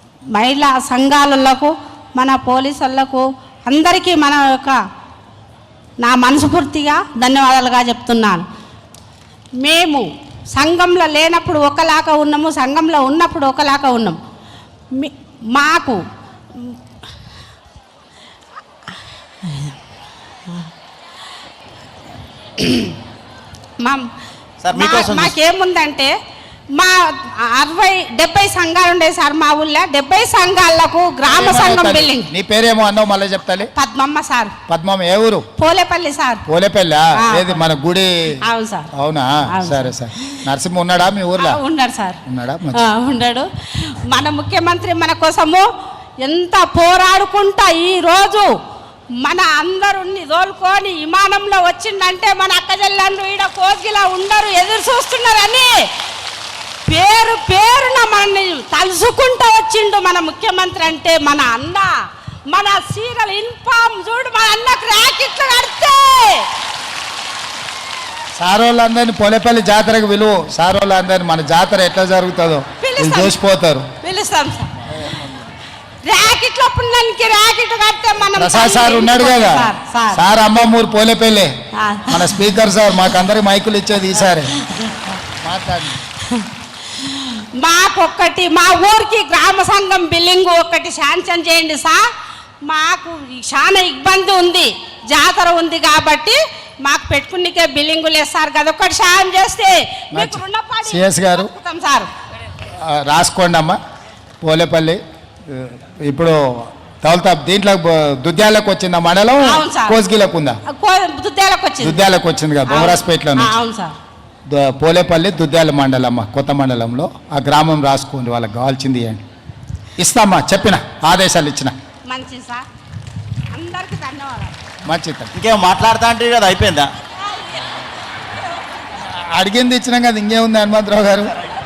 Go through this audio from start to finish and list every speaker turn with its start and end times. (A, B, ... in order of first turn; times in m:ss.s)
0:00.3-0:04.8 A
0:06.0-0:08.4 A
0:09.6-0:14.2 A
0:14.9-0:16.0 A
0:19.4-0:19.8 A
0:22.6-0:23.0 A
0:24.6-0:25.4 B
0:24.7-0:26.1 A
0:26.7-0:32.3 A
0:31.3-0:33.7 C
0:33.7-0:34.5 A
0:34.7-0:35.4 C
0:35.6-0:36.4 A
0:36.5-0:38.2 C
0:37.2-0:37.6 A
0:38.4-0:38.9 A
0:38.9-0:41.6 C
0:39.5-0:40.4 A
0:41.4-0:45.7 A
0:42.3-0:42.8 C
0:46.2-0:48.5 A
0:49.2-0:55.8 A
0:56.9-1:01.9 A
1:02.5-1:06.5 A
1:08.4-1:13.9 C
1:12.8-1:13.4 A
1:14.0-1:14.8 A
1:16.0-1:20.3 A
1:18.3-1:21.5 C
1:21.8-1:22.4 A
1:22.1-1:24.5 C
1:24.5-1:25.0 A
1:25.4-1:26.0 C
1:26.2-1:32.0 A
1:32.6-1:42.1 A
1:40.1-1:41.5 C
1:42.8-1:43.8 C
1:44.4-1:50.6 C
1:49.4-1:50.0 A
1:50.7-1:52.1 A
1:51.8-1:53.5 C
1:52.6-1:53.9 A
1:54.5-1:59.2 C
2:00.0-2:01.7 C
2:02.1-2:02.6 A
2:03.5-2:04.5 A
2:04.8-2:05.3 C
2:05.3-2:06.9 B
2:09.0-2:11.3 C